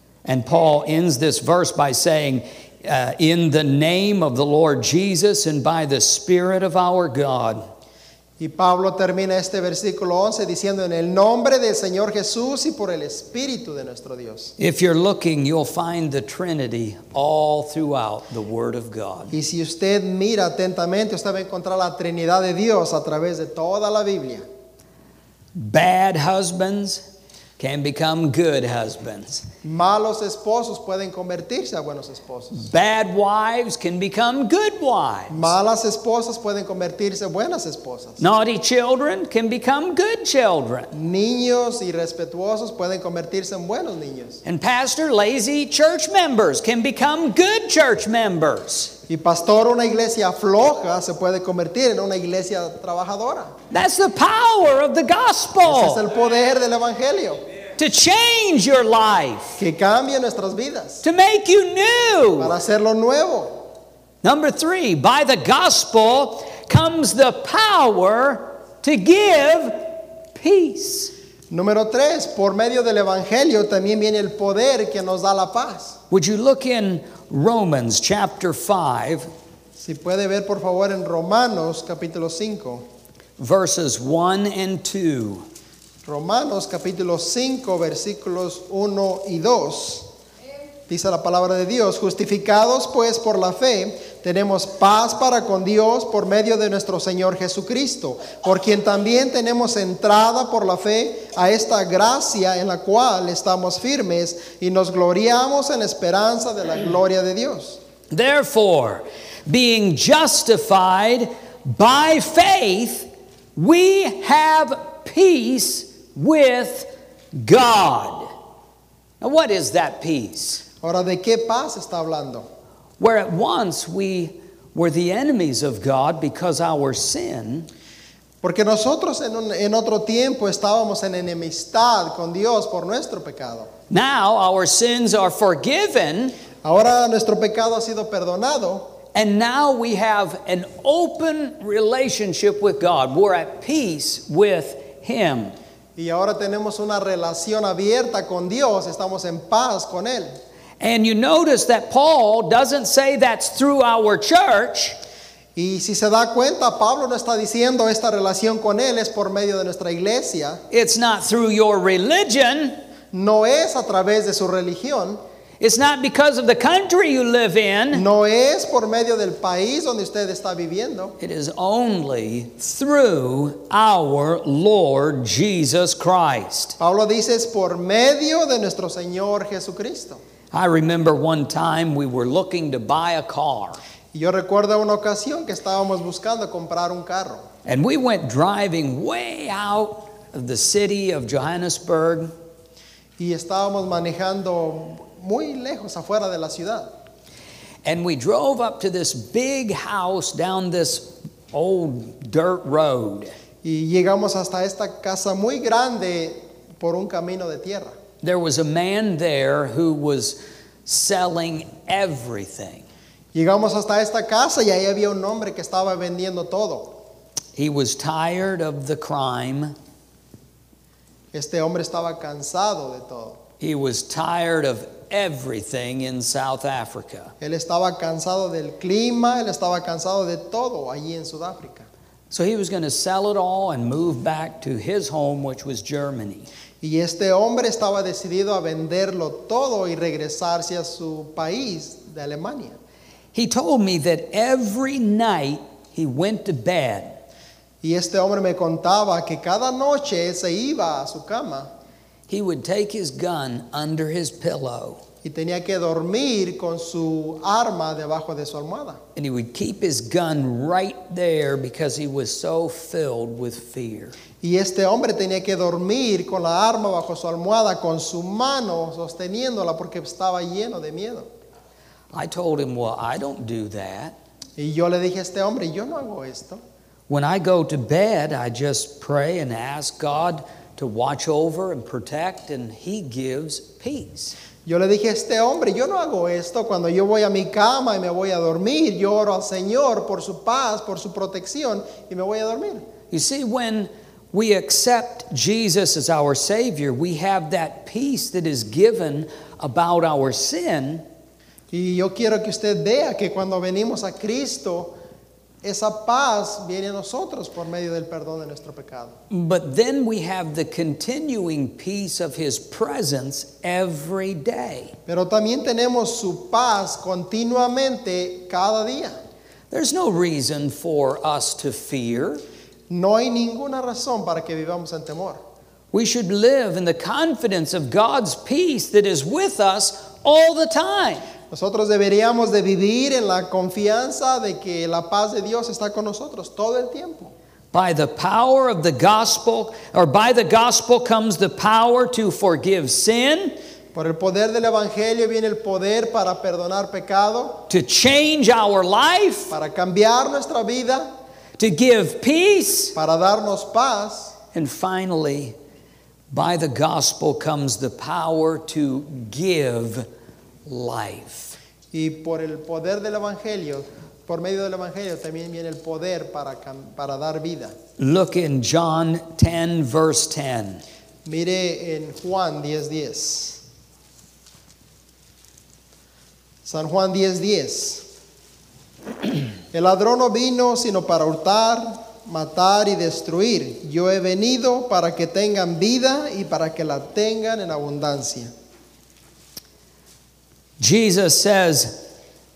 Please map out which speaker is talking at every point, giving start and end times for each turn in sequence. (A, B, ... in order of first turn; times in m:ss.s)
0:00.2-0:07.6 A
0:08.4-0:14.5 B
0:14.6-0:19.3 A
0:19.3-0:24.4 B
0:25.6-0:27.0 A
0:27.6-0:29.5 A
0:29.6-0:32.7 B
0:32.5-0:35.5 A
0:35.3-0:38.2 B
0:38.2-0:40.9 A
0:40.9-0:44.4 B
0:44.4-0:48.9 A
0:49.1-0:53.5 B
0:53.7-0:56.0 A
0:55.6-0:57.4 B
0:57.8-0:59.6 A
0:59.6-1:01.0 B
1:01.0-1:02.6 A
1:02.4-1:03.6 B
1:04.2-1:11.1 A
1:11.5-1:16.0 B
1:16.1-1:19.3 A
1:19.8-1:22.8 B
1:23.4-1:25.4 A
1:26.0-1:30.1 B
1:30.9-1:47.8 B
1:48.1-1:58.3 A
1:59.2-2:00.6 A
2:00.8-2:02.4 B
2:03.0-2:07.7 A
2:08.4-2:13.7 B
2:13.9-2:16.4 A
2:16.6-2:18.9 B
2:19.1-2:25.6 A
2:26.0-2:30.3 B
2:30.8-2:35.0 A
2:35.6-2:40.6 B
2:40.7-2:42.8 A
2:43.1-2:45.2 B
2:45.6-2:48.0 A
2:47.9-2:51.2 B
2:51.2-2:56.8 A
2:56.8-3:00.2 B
3:00.5-3:03.8 A
3:04.1-3:07.5 B
3:07.6-3:12.3 A
3:13.2-3:16.9 B
3:17.8-3:23.3 A
3:23.6-3:28.0 B
3:28.2-3:32.8 A
3:33.3-3:37.0 B
3:37.6-3:39.8 A
3:41.3-3:43.4 B
3:43.6-3:47.3 A
3:47.4-3:51.9 B
3:52.3-3:56.5 A
3:56.8-4:02.8 B
4:03.3-4:07.2 A
4:07.8-4:11.7 B
4:12.3-4:15.0 A
4:15.2-4:19.0 B
4:19.2-4:24.2 A
4:24.4-4:31.3 B
4:32.1-4:34.2 A
4:34.6-4:36.6 B
4:37.1-4:44.4 A
4:44.6-4:52.8 B
4:53.1-5:01.0 A
5:01.7-5:05.0 B
5:05.6-5:09.2 B
5:09.3-5:15.0 A
5:15.1-5:19.1 B
5:19.7-5:22.4 A
5:22.9-5:25.4 B
5:25.9-5:31.3 A
5:31.5-5:37.3 B
5:37.7-5:43.6 A
5:43.9-5:47.6 B
5:47.7-5:49.5 A
5:49.5-5:51.1 B
5:51.6-5:53.0 A
5:53.0-5:54.4 B
5:54.5-5:55.6 A
5:56.3-6:00.1 A
6:00.7-6:01.6 A
6:01.9-6:07.8 B
6:08.0-6:10.8 A
6:11.2-6:13.6 B
6:16.6-6:18.0 B
6:19.7-6:28.5 B
6:30.8-6:32.0 A